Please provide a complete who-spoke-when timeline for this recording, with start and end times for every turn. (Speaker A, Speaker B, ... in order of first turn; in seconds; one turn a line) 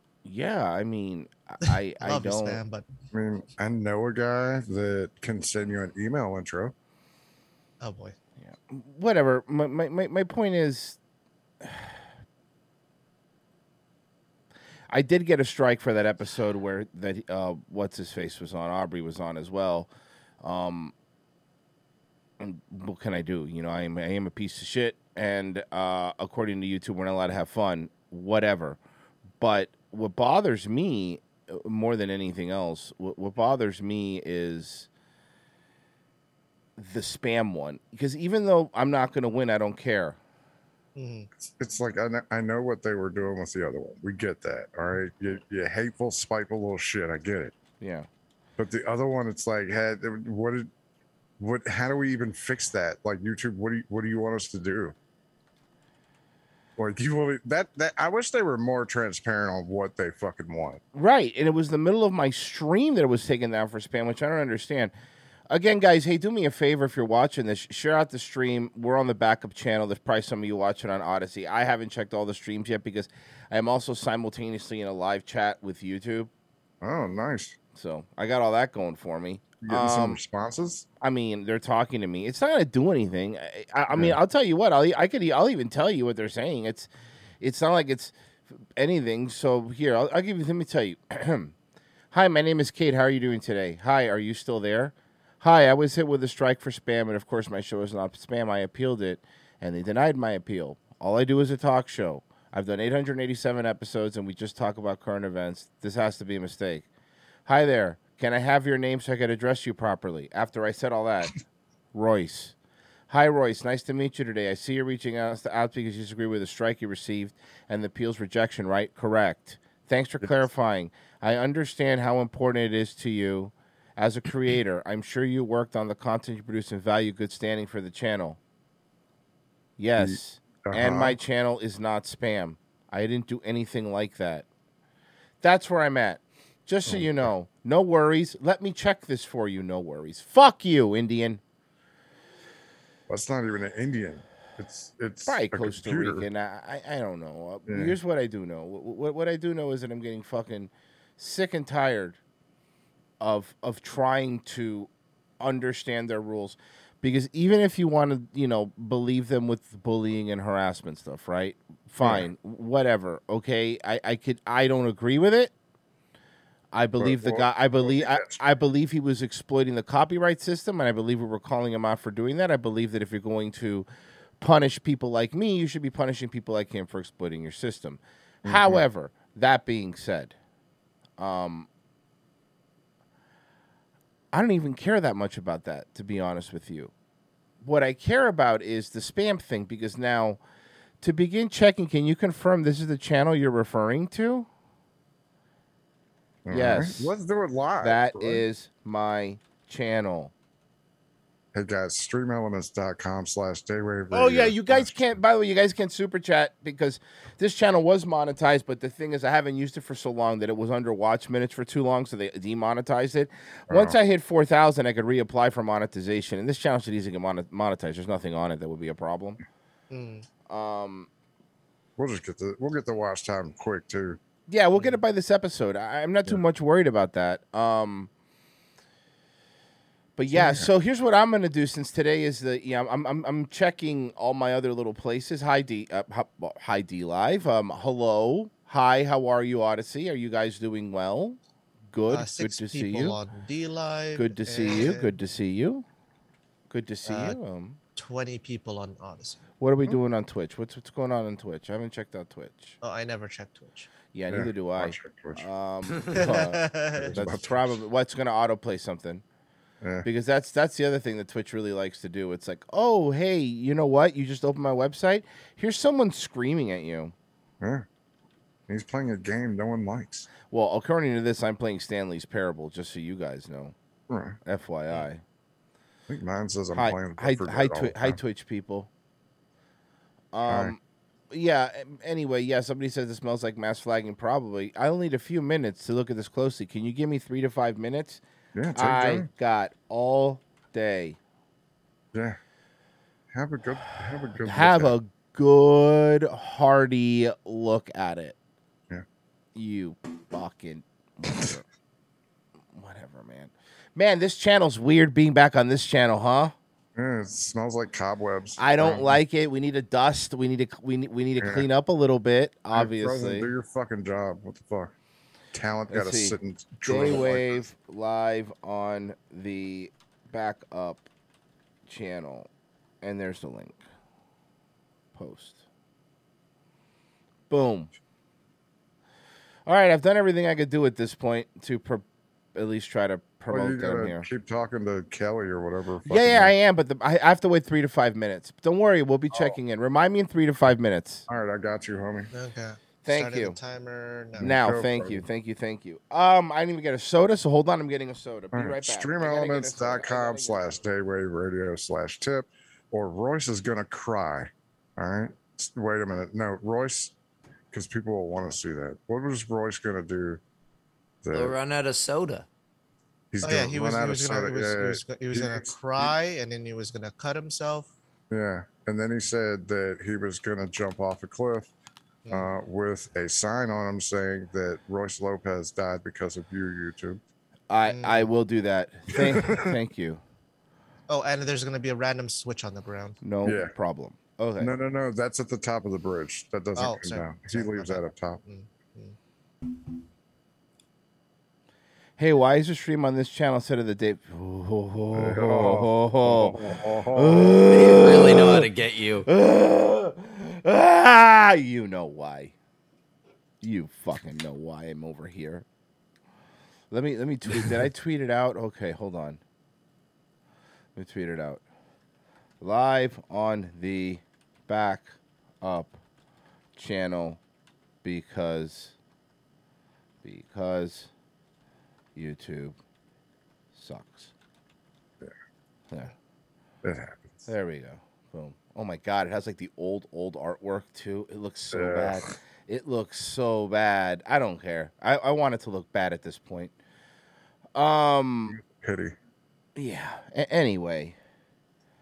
Speaker A: 0.2-2.6
Speaker B: 2.0-2.9
Speaker C: 3.1-6.7
Speaker B: 7.8-8.2
Speaker A: 8.4-11.0
Speaker A: 11.6-11.9
Speaker A: 14.9-19.9
Speaker A: 20.4-20.9
Speaker A: 22.4-28.8
Speaker A: 29.4-34.9
Speaker A: 36.8-40.2
Speaker B: 41.0-41.3
Speaker C: 41.4-47.5
Speaker A: 47.8-48.1
Speaker C: 48.6-50.7
Speaker C: 51.4-55.0
Speaker C: 56.8-60.8
Speaker A: 60.9-64.9
Speaker A: 65.5-76.3
Speaker C: 76.8-77.6
Speaker A: 77.8-80.2
Speaker C: 79.6-80.9
Speaker A: 81.0-86.9
Speaker C: 83.9-84.2
Speaker A: 87.4-88.1
Speaker A: 88.8-91.5
Speaker A: 92.1-106.9
Speaker A: 107.5-111.3
Speaker A: 111.9-112.5
Speaker A: 113.1-128.4
Speaker A: 129.8-134.5
Speaker C: 130.0-131.2
Speaker A: 135.4-141.4
Speaker C: 136.9-137.3
Speaker C: 143.1-146.3
Speaker A: 145.3-152.2
Speaker C: 147.7-148.0
Speaker A: 153.2-154.9
Speaker A: 155.4-165.5
Speaker C: 162.0-162.3
Speaker A: 166.7-173.9
Speaker C: 167.0-168.4
Speaker A: 174.4-180.3
Speaker C: 178.4-178.8
Speaker A: 181.2-181.7
Speaker A: 184.3-186.9
Speaker A: 187.6-190.4
Speaker A: 191.0-194.5
Speaker C: 196.4-198.4
Speaker A: 196.5-197.1
Speaker A: 197.8-200.3
Speaker C: 201.5-205.2
Speaker A: 204.1-219.4
Speaker C: 213.7-214.0
Speaker B: 219.9-220.3
Speaker A: 220.5-221.1
Speaker C: 222.0-224.2
Speaker A: 224.5-228.1
Speaker A: 230.2-241.4
Speaker C: 230.3-230.7
Speaker A: 241.9-243.2
Speaker B: 242.1-245.1
Speaker A: 244.2-245.8
Speaker A: 246.7-247.8
Speaker B: 247.1-247.4
Speaker B: 248.0-249.4
Speaker A: 249.6-252.8
Speaker B: 252.8-253.9
Speaker A: 254.1-259.2
Speaker C: 254.3-255.5
Speaker B: 256.1-257.2
Speaker C: 257.0-257.7
Speaker C: 259.8-260.1
Speaker A: 260.0-267.1
Speaker C: 268.7-270.3
Speaker A: 270.5-273.8
Speaker C: 274.1-274.4
Speaker A: 274.4-275.2
Speaker C: 276.1-278.2
Speaker A: 276.8-278.9
Speaker A: 280.3-280.8
Speaker C: 280.5-280.8
Speaker A: 281.3-288.2
Speaker C: 288.6-289.3
Speaker A: 288.8-291.2
Speaker C: 293.3-294.9
Speaker A: 294.4-298.4
Speaker A: 299.6-301.6
Speaker A: 302.7-306.5
Speaker C: 307.0-309.2
Speaker A: 308.6-313.5
Speaker C: 311.4-311.7
Speaker C: 312.7-314.9
Speaker C: 315.5-317.6
Speaker A: 315.9-321.1
Speaker A: 321.9-322.5
Speaker A: 323.0-323.8
Speaker A: 325.1-325.6
Speaker A: 327.5-327.9
Speaker A: 329.7-332.0
Speaker A: 332.6-334.3
Speaker C: 333.5-336.5
Speaker A: 336.1-341.2
Speaker C: 339.3-339.6
Speaker C: 341.3-342.3
Speaker B: 342.3-344.5
Speaker A: 343.0-343.6
Speaker C: 344.4-345.2
Speaker A: 344.4-350.8
Speaker C: 348.5-357.1
Speaker C: 357.7-360.4
Speaker C: 361.2-361.6
Speaker D: 361.3-362.5
Speaker C: 363.3-366.1
Speaker B: 363.4-367.9
Speaker C: 368.3-371.7
Speaker C: 372.3-377.2
Speaker A: 377.7-380.2
Speaker B: 377.9-378.3
Speaker C: 379.1-379.7
Speaker B: 381.1-383.2
Speaker A: 383.2-384.8
Speaker C: 383.4-383.7
Speaker C: 384.6-388.4
Speaker B: 386.8-389.2
Speaker A: 392.2-396.6
Speaker C: 395.1-397.6
Speaker A: 397.1-398.7
Speaker D: 397.7-399.3
Speaker A: 399.2-402.5
Speaker A: 403.6-405.6
Speaker A: 406.9-409.4
Speaker A: 411.0-411.6
Speaker A: 412.6-416.0
Speaker A: 416.8-417.4
Speaker A: 418.0-418.9
Speaker A: 420.2-421.1
Speaker A: 422.2-422.8
Speaker A: 423.8-424.3
Speaker C: 426.8-427.5
Speaker A: 427.5-436.7
Speaker C: 431.7-432.3
Speaker A: 437.8-438.6
Speaker C: 438.5-439.2
Speaker A: 439.8-441.2